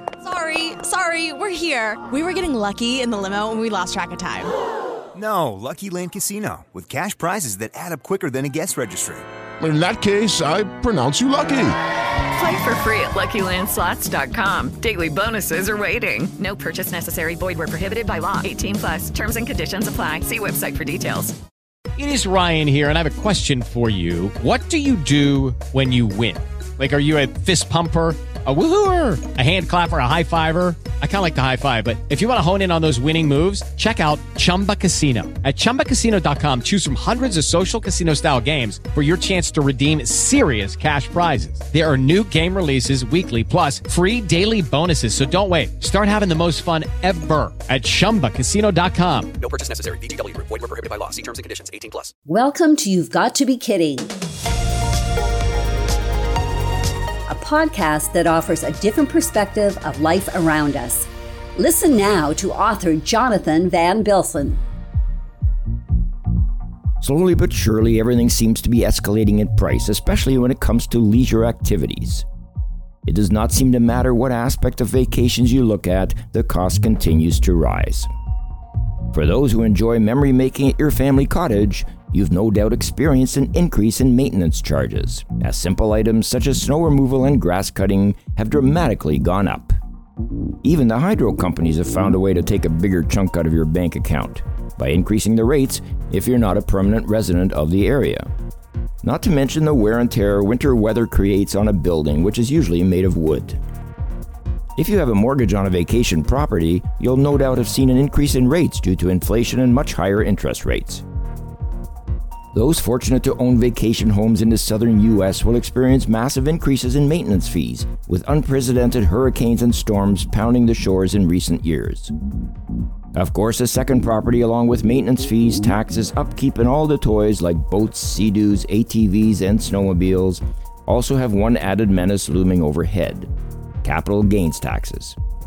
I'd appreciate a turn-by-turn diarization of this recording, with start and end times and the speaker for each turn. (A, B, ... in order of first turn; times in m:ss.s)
0:00.3-0:04.4 A
0:05.1-0:09.2 B
0:09.6-0:11.8 C
0:12.3-0:21.4 D
0:22.0-0:49.3 E
0:49.4-0:52.1 F
0:52.3-0:54.1 G
0:57.3-1:04.6 G
1:07.0-1:12.3 H
1:13.1-1:18.1 H
1:19.1-1:29.8 H
1:30.6-1:38.3 H
1:39.0-1:43.6 H
1:44.8-1:51.0 H
1:52.5-2:02.1 H
2:03.2-2:13.3 H
2:13.8-2:15.2 H